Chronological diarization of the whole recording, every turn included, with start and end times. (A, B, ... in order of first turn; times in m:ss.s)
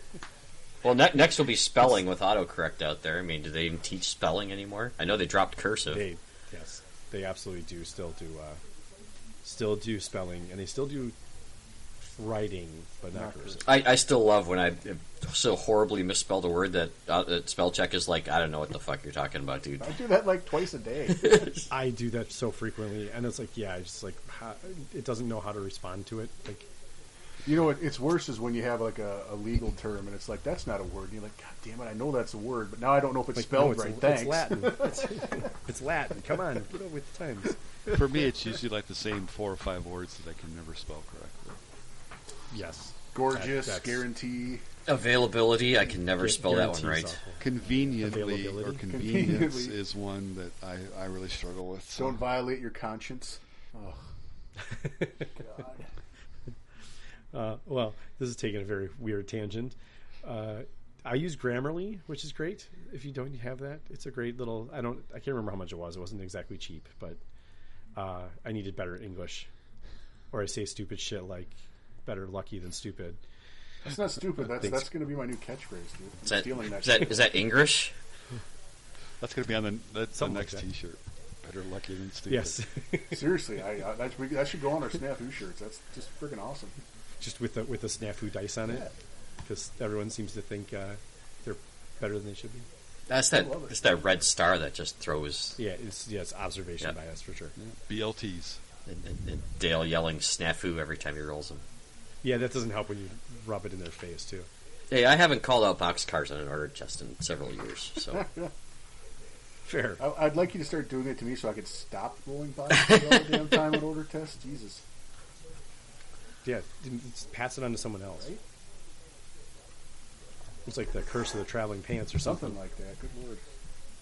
0:00.8-0:06.0 A
0:05.9-0:08.6 B
0:09.4-0:11.1 B
0:12.1-0:13.7 B
0:13.1-0:13.8 C
0:13.6-0:20.0 A
0:19.8-0:21.6 C
0:21.2-0:21.6 A
0:21.7-0:26.7 B
0:27.4-0:35.4 C
0:33.3-0:37.6 B
0:37.9-0:41.6 D
0:42.5-0:44.0 B
0:43.1-0:44.6 C
0:44.8-0:47.2 A
0:46.2-0:47.4 B
0:47.4-0:52.2 D
0:47.6-0:48.0 C
0:48.0-0:48.8 B
0:48.9-0:49.8 C
0:52.0-0:54.1 C
0:54.8-0:55.2 B
0:55.4-0:55.8 C
0:57.3-1:07.2 B
1:08.0-1:09.5 B
1:10.3-1:11.5 B
1:12.0-1:13.2 B
1:13.8-1:17.3 C
1:14.6-1:14.9 B
1:16.2-1:17.9 A
1:19.2-1:22.6 D
1:20.1-1:20.6 B
1:22.3-1:23.2 B
1:23.1-1:26.7 C
1:27.2-1:28.9 B
1:29.4-1:32.6 B
1:33.1-1:35.6 A
1:33.3-1:33.7 C
1:35.6-1:37.5 B
1:37.6-1:38.6 D
1:38.9-1:41.6 A
1:42.2-1:44.5 B
1:44.9-1:48.2 A
1:48.1-1:48.5 C
1:49.6-1:50.0 B
1:50.0-1:54.8 C
1:56.4-1:58.3 B
2:00.6-2:02.6 B
2:02.2-2:03.4 C